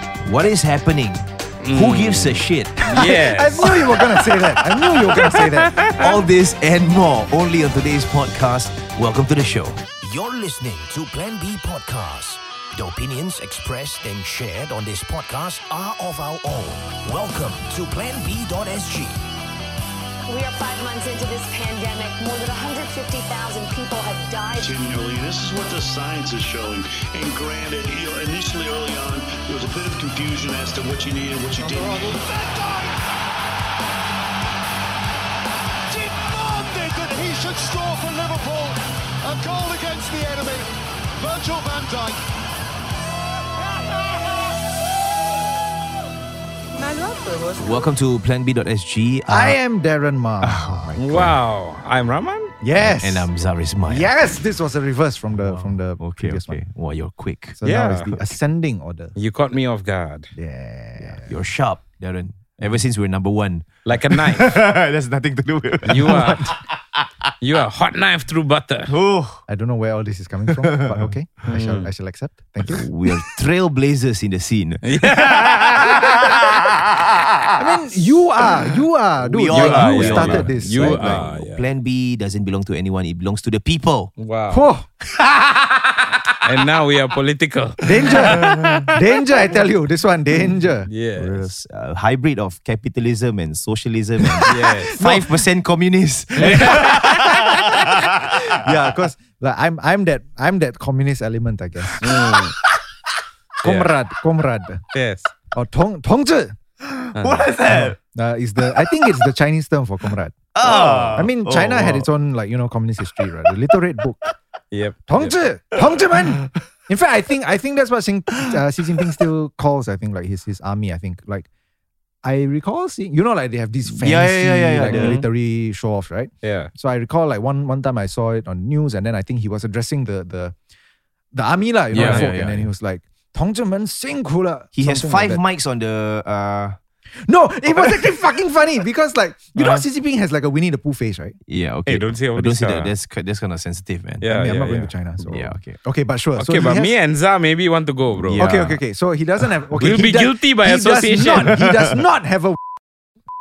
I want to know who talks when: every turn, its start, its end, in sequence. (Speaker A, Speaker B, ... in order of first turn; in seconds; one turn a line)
Speaker A: 0.2-2.8
Speaker B: 1.6-3.8
Speaker C: 2.8-5.8
Speaker B: 5.2-6.2
Speaker A: 6.0-19.2
Speaker D: 20.3-24.8
Speaker E: 24.6-32.3
Speaker F: 31.7-33.0
Speaker F: 35.9-42.2
Speaker F: 46.8-47.4
Speaker A: 47.5-49.6
Speaker C: 49.3-51.0
Speaker A: 50.4-51.4
Speaker B: 51.0-52.5
Speaker C: 52.6-53.3
Speaker A: 52.8-54.1
Speaker C: 53.9-56.6
Speaker A: 55.3-57.6
Speaker C: 57.6-59.2
Speaker B: 57.6-58.3
Speaker B: 59.2-60.3
Speaker C: 60.4-61.3
Speaker A: 61.1-67.1
Speaker B: 63.9-64.6
Speaker B: 65.8-66.5
Speaker B: 67.4-68.9
Speaker A: 68.9-69.4
Speaker C: 69.5-72.9
Speaker A: 70.6-71.1
Speaker B: 71.5-71.9
Speaker A: 72.6-77.6
Speaker B: 74.8-76.5
Speaker C: 77.6-81.2
Speaker A: 78.7-84.1
Speaker B: 79.5-81.6
Speaker B: 84.2-84.7
Speaker C: 84.5-84.9
Speaker B: 86.4-89.0
Speaker C: 87.8-90.9
Speaker A: 88.4-88.7
Speaker B: 90.9-91.5
Speaker A: 91.2-98.7
Speaker C: 94.4-95.3
Speaker B: 94.5-95.1
Speaker B: 96.4-97.5
Speaker C: 96.4-102.2
Speaker A: 101.8-102.8
Speaker B: 102.0-102.5
Speaker C: 103.6-104.8
Speaker B: 103.6-103.9
Speaker B: 104.9-105.3
Speaker C: 105.5-106.6
Speaker A: 106.8-108.0
Speaker B: 107.2-107.5
Speaker C: 107.7-110.4
Speaker A: 110.5-112.1
Speaker B: 110.6-111.2
Speaker C: 111.1-114.2
Speaker B: 114.7-115.4
Speaker C: 115.1-121.5
Speaker A: 116.2-116.6
Speaker C: 122.2-130.6
Speaker A: 123.9-125.2
Speaker B: 124.8-125.2
Speaker B: 126.4-126.7
Speaker C: 131.3-135.4
Speaker A: 131.9-132.7
Speaker B: 132.0-132.3
Speaker A: 134.8-136.8
Speaker C: 137.3-141.4
Speaker B: 139.6-139.8
Speaker A: 141.5-144.3
Speaker B: 141.9-142.9
Speaker B: 144.2-145.3
Speaker C: 144.3-146.9
Speaker A: 145.3-145.8
Speaker B: 146.4-148.4
Speaker A: 148.3-148.8
Speaker C: 148.3-152.6
Speaker B: 149.8-151.6
Speaker A: 151.3-151.9